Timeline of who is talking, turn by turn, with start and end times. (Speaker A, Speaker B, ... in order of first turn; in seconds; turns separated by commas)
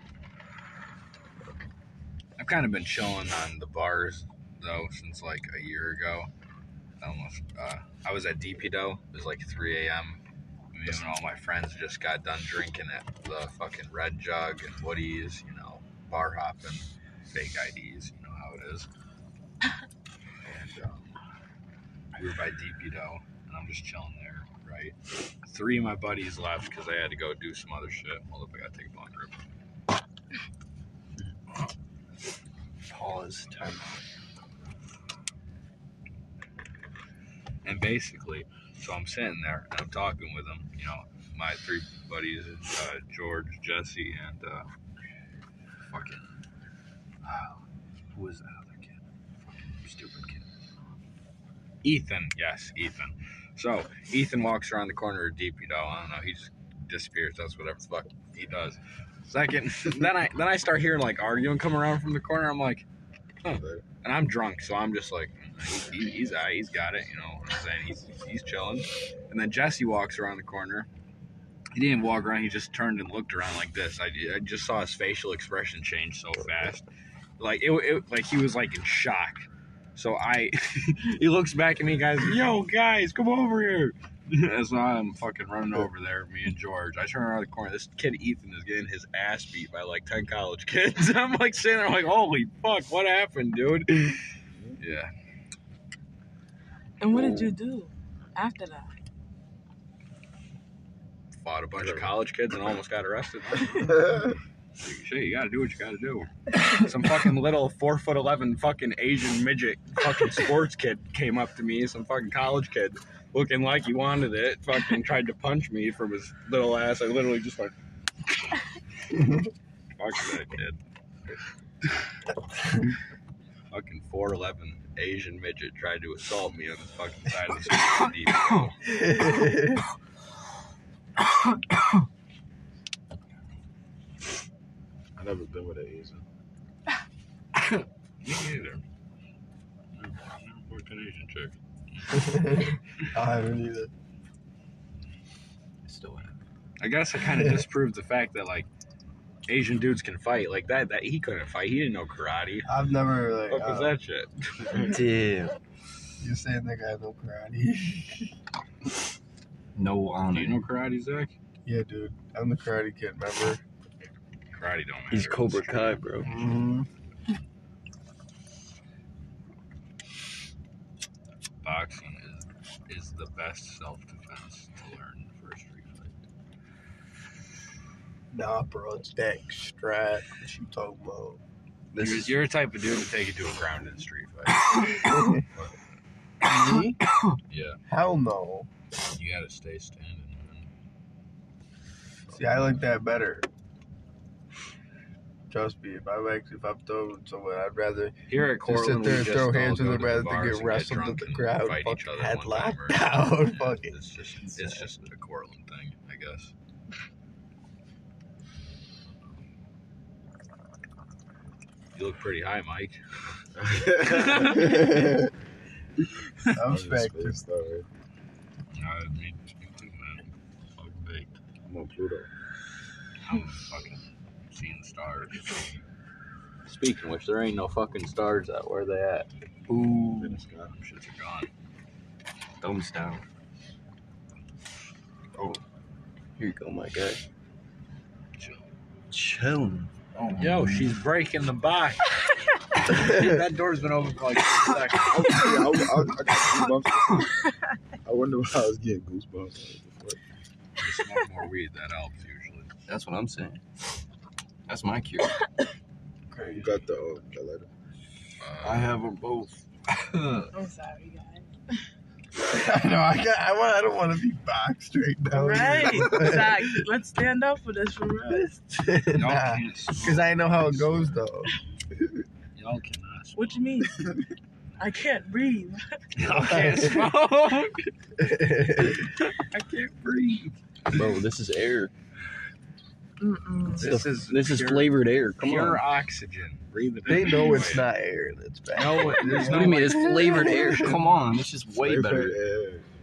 Speaker A: 2.4-6.3, Speaker A: 7.0-10.2, Speaker A: 10.7-18.9, Speaker A: 20.4-21.1, Speaker A: 22.1-29.4, Speaker B: 32.9-34.0, Speaker A: 37.6-44.7, Speaker A: 45.9-46.2, Speaker A: 47.2-47.6, Speaker A: 48.1-48.9, Speaker A: 49.5-50.4, Speaker A: 51.8-62.9, Speaker A: 63.4-70.9, Speaker C: 63.5-63.9, Speaker A: 71.8-76.9, Speaker A: 77.4-94.2, Speaker A: 94.8-95.1, Speaker D: 97.0-98.9, Speaker A: 101.4-104.2, Speaker C: 101.8-102.1, Speaker C: 103.7-104.4, Speaker A: 104.8-117.7, Speaker A: 120.0-120.8, Speaker A: 123.7-128.8, Speaker E: 128.8-129.8, Speaker C: 135.2-136.2, Speaker A: 137.6-138.8, Speaker A: 139.9-142.4, Speaker E: 142.1-143.9, Speaker B: 145.8-146.3, Speaker A: 146.8-148.7, Speaker A: 149.5-152.7, Speaker E: 152.7-153.9, Speaker A: 153.5-154.3, Speaker B: 154.7-155.6, Speaker E: 156.2-158.3, Speaker B: 159.8-160.7, Speaker A: 160.3-161.3, Speaker E: 161.7-163.6, Speaker A: 164.5-166.3, Speaker B: 165.1-166.8, Speaker A: 171.6-176.2, Speaker E: 178.3-181.4, Speaker B: 181.9-182.4, Speaker A: 182.0-185.8, Speaker E: 185.1-185.4, Speaker E: 186.4-187.0, Speaker B: 187.1-187.4, Speaker A: 187.5-187.8, Speaker E: 187.9-188.7, Speaker A: 189.0-190.7, Speaker A: 192.3-192.8, Speaker E: 192.3-193.5, Speaker E: 195.5-203.9, Speaker A: 198.3-206.5, Speaker B: 204.4-204.9, Speaker A: 211.9-213.1, Speaker C: 213.6-214.8, Speaker A: 214.0-215.0, Speaker E: 214.4-215.3, Speaker E: 216.5-217.4, Speaker C: 216.7-217.9, Speaker A: 218.7-221.4, Speaker C: 221.6-222.3, Speaker A: 223.2-225.8, Speaker A: 226.6-229.3, Speaker B: 229.7-230.4, Speaker C: 230.1-230.7, Speaker A: 230.7-231.5, Speaker B: 232.6-233.2, Speaker B: 236.4-237.2, Speaker A: 238.4-238.7, Speaker B: 239.1-241.0, Speaker A: 240.4-242.1, Speaker A: 242.8-245.6, Speaker C: 245.1-247.4, Speaker C: 248.0-250.2, Speaker A: 250.8-252.7, Speaker B: 252.9-253.6, Speaker B: 254.7-255.4, Speaker E: 256.3-256.8, Speaker C: 256.5-257.7, Speaker A: 258.4-258.9, Speaker B: 258.6-260.5, Speaker D: 260.5-261.5, Speaker E: 262.4-266.8, Speaker D: 265.3-268.6, Speaker E: 268.7-271.5, Speaker A: 269.1-271.1, Speaker A: 272.6-273.7, Speaker D: 273.4-274.1, Speaker C: 273.9-274.2, Speaker D: 274.8-275.8, Speaker A: 276.1-277.9, Speaker E: 276.3-277.0, Speaker E: 278.2-279.1, Speaker A: 279.0-280.5, Speaker B: 280.9-281.9, Speaker D: 283.2-283.9, Speaker A: 283.8-287.9, Speaker B: 283.8-285.8, Speaker E: 287.1-291.0, Speaker A: 288.7-290.9, Speaker B: 289.3-292.4, Speaker C: 291.8-292.9